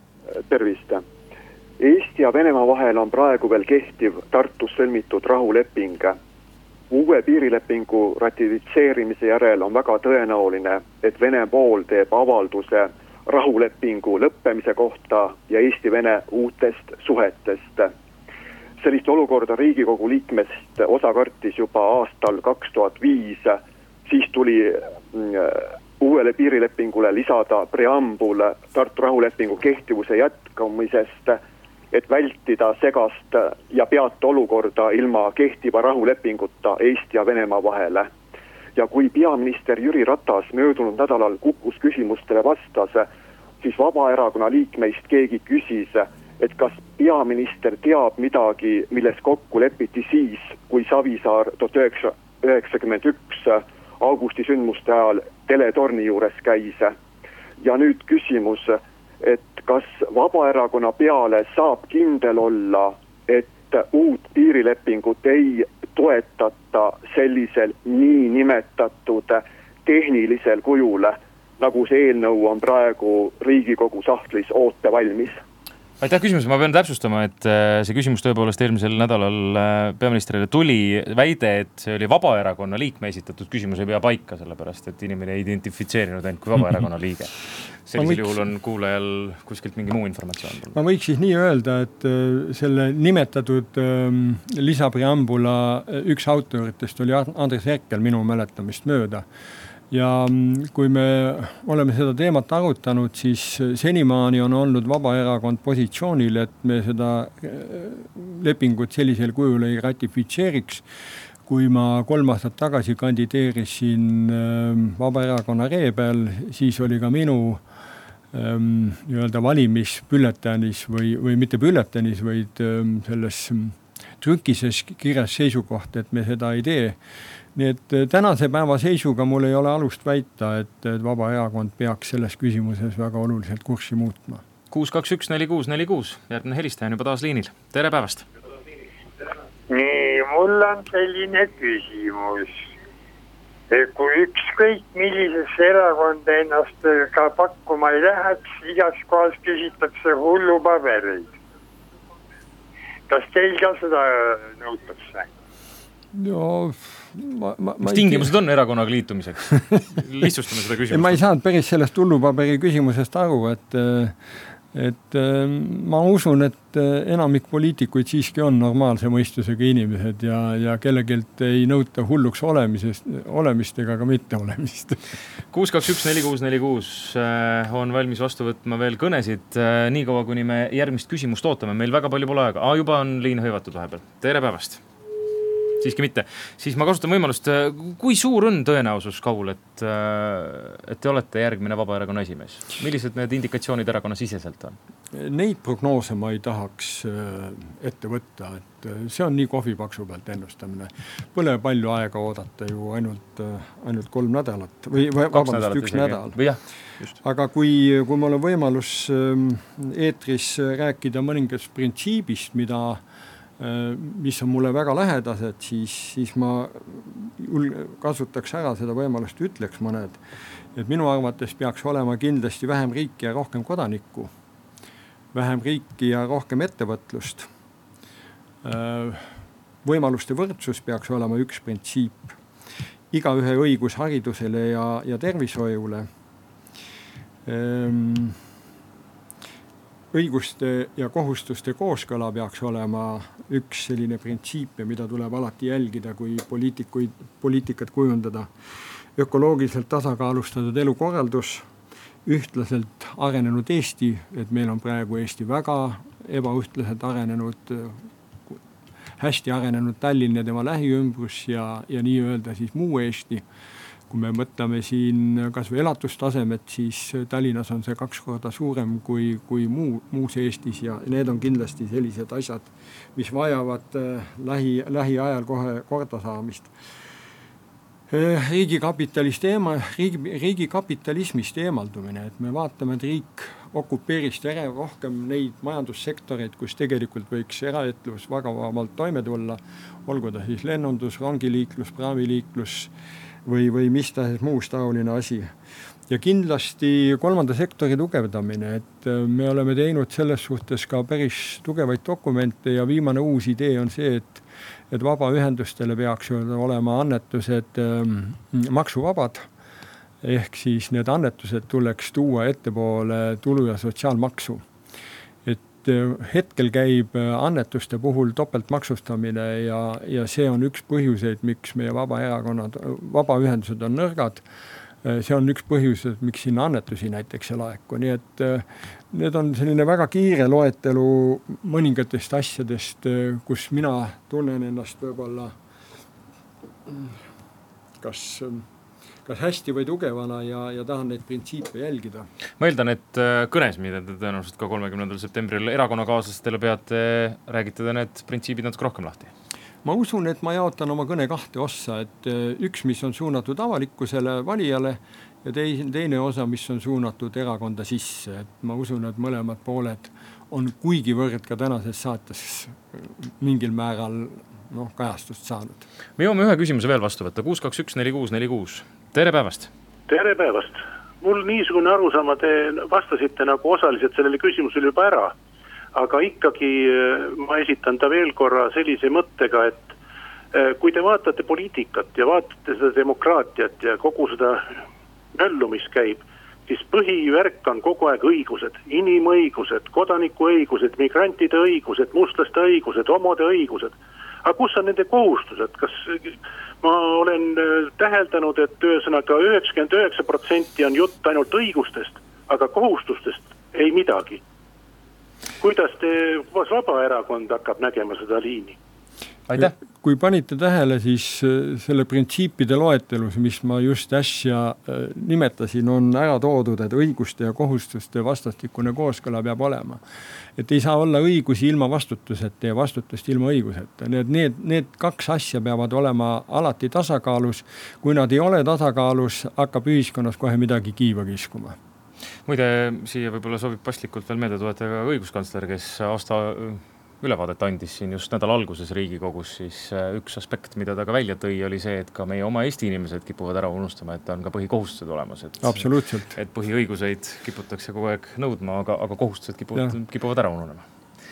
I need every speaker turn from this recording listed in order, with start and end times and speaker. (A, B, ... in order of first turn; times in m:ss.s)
0:00.4-0:01.0 A
0:01.8-0:06.2 A
0:06.9-0:17.9 A
0:18.8-0:31.4 A
0:31.9-0:38.1 A
0:38.8-0:43.1 A
0:43.6-0:56.9 A
0:57.6-1:15.4 A
1:16.0-1:27.3 B
1:27.8-1:30.8 B
1:27.9-1:28.4 C
1:30.7-1:39.2 C
1:39.9-1:50.8 C
1:51.4-1:57.6 C
1:58.3-2:07.0 C
2:07.5-2:14.4 C
2:14.7-2:18.2 B
2:19.7-2:22.7 D
2:23.7-2:31.3 D
2:33.1-2:35.3 D
2:36.1-2:38.3 C
2:37.8-2:41.2 B
2:40.9-2:44.2 C
2:44.7-2:55.0 C
2:55.5-3:04.8 B
3:05.8-3:14.8 B
3:15.1-3:26.4 C
3:25.3-3:27.2 B
3:27.2-3:33.0 C
3:33.6-3:40.2 C
3:40.7-3:44.3 C
3:45.3-3:47.5 C
3:48.6-3:49.3 C
3:49.8-3:52.4 C
3:53.1-3:56.1 C
3:57.4-3:58.4 C
4:00.1-4:08.5 C
4:09.2-4:11.7 C
4:12.2-4:18.6 C
4:19.2-4:23.4 C
4:24.1-4:36.7 C
4:38.1-4:52.9 C
4:53.4-4:55.5 C
4:56.1-5:09.5 C
5:10.2-5:14.6 C
5:15.4-5:24.4 C
5:25.0-5:35.5 C
5:36.9-5:37.1 C
5:38.0-5:38.6 C
5:39.2-5:42.3 C
5:42.6-5:49.3 B
5:49.8-6:05.8 C
6:06.2-6:09.7 B
6:10.1-6:15.3 E
6:15.9-6:19.9 E
6:20.5-6:24.7 E
6:25.3-6:44.4 E
6:45.6-6:48.8 E
6:49.5-7:00.0 C
7:00.6-7:11.8 C
7:12.4-7:25.8 B
7:25.6-7:26.4 C
7:26.4-7:30.8 B